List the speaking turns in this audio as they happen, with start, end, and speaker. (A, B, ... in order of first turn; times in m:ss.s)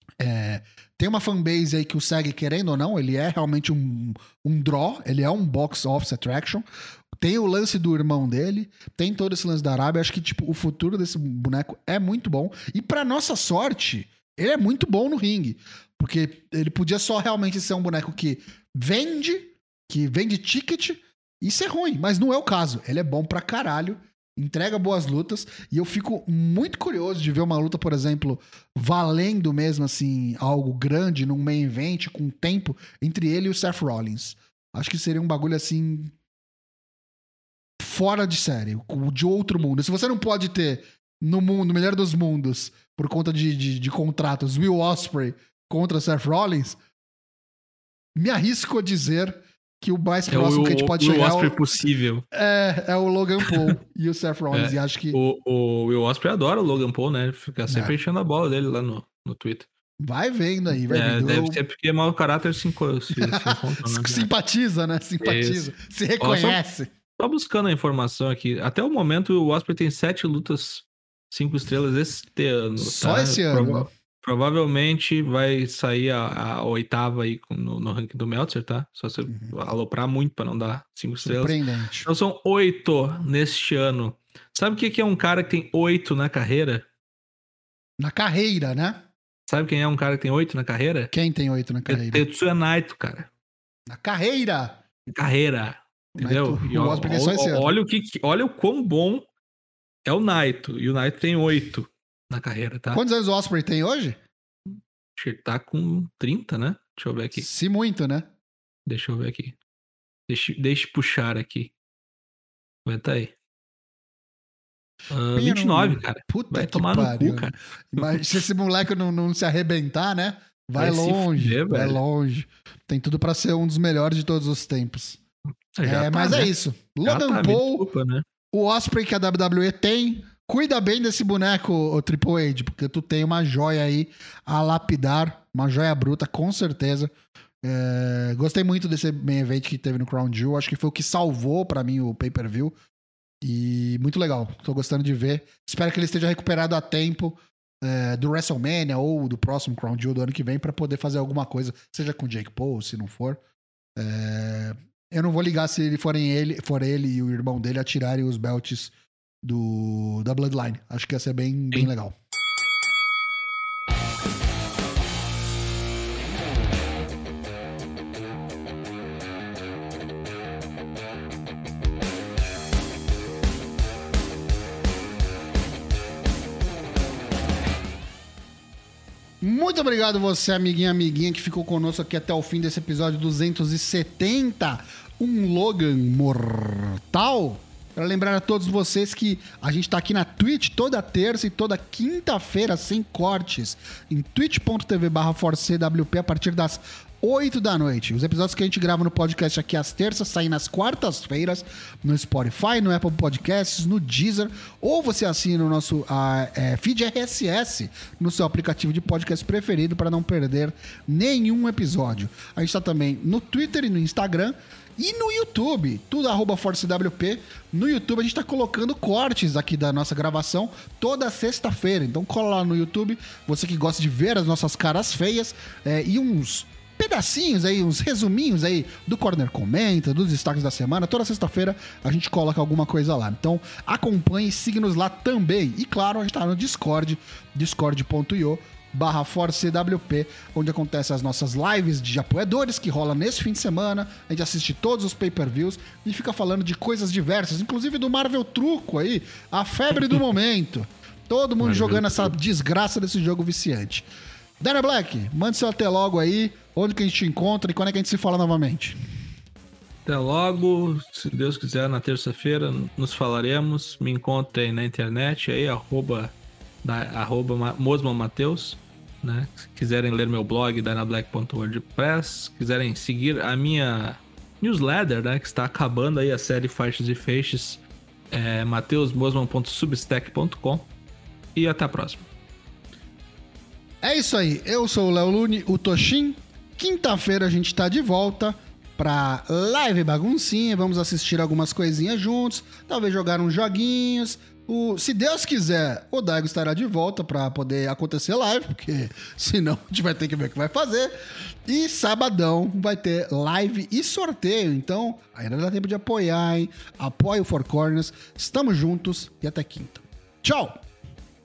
0:00.2-0:06.7 A
0:07.2-0:36.2 A
0:37.8-0:46.8 A
0:48.2-0:51.6 A
0:50.3-0:52.3 B
0:52.3-0:55.2 A
0:53.4-0:53.8 B
0:54.5-0:59.7 B
0:57.7-0:58.0 A
1:00.0-1:01.6 A
1:00.9-1:04.3 B
1:03.1-1:06.9 A
1:05.2-1:05.7 B
1:06.2-1:06.6 B
1:07.2-1:26.9 B
1:12.8-1:13.9 A
1:19.3-1:19.6 A
1:21.2-1:22.1 A
1:28.0-1:29.0 A
1:29.5-1:31.1 B
1:31.1-1:32.2 A
1:31.9-1:33.3 B
1:33.9-1:34.8 A
1:35.1-1:39.3 B
1:36.2-1:37.7 A
1:40.1-1:43.0 B
1:42.9-1:44.2 A
1:44.7-1:47.5 B
1:47.4-1:48.3 A
1:48.9-1:49.6 B
1:50.3-1:51.7 B
1:52.9-1:53.3 B
1:55.1-1:58.4 B
1:55.4-2:05.2 A
2:00.8-2:02.0 B
2:05.8-2:06.5 B
2:05.8-2:07.9 A
2:07.0-2:08.3 B
2:08.5-2:17.1 A
2:17.6-2:22.8 A
2:23.4-2:33.4 A
2:34.0-2:42.2 A
2:59.4-4:14.1 A
4:11.6-4:12.3 B
4:14.6-4:19.0 A
4:20.0-4:37.8 B
4:38.3-4:40.9 B
4:41.6-4:42.3 B
4:44.0-5:01.1 A
5:01.7-5:10.8 A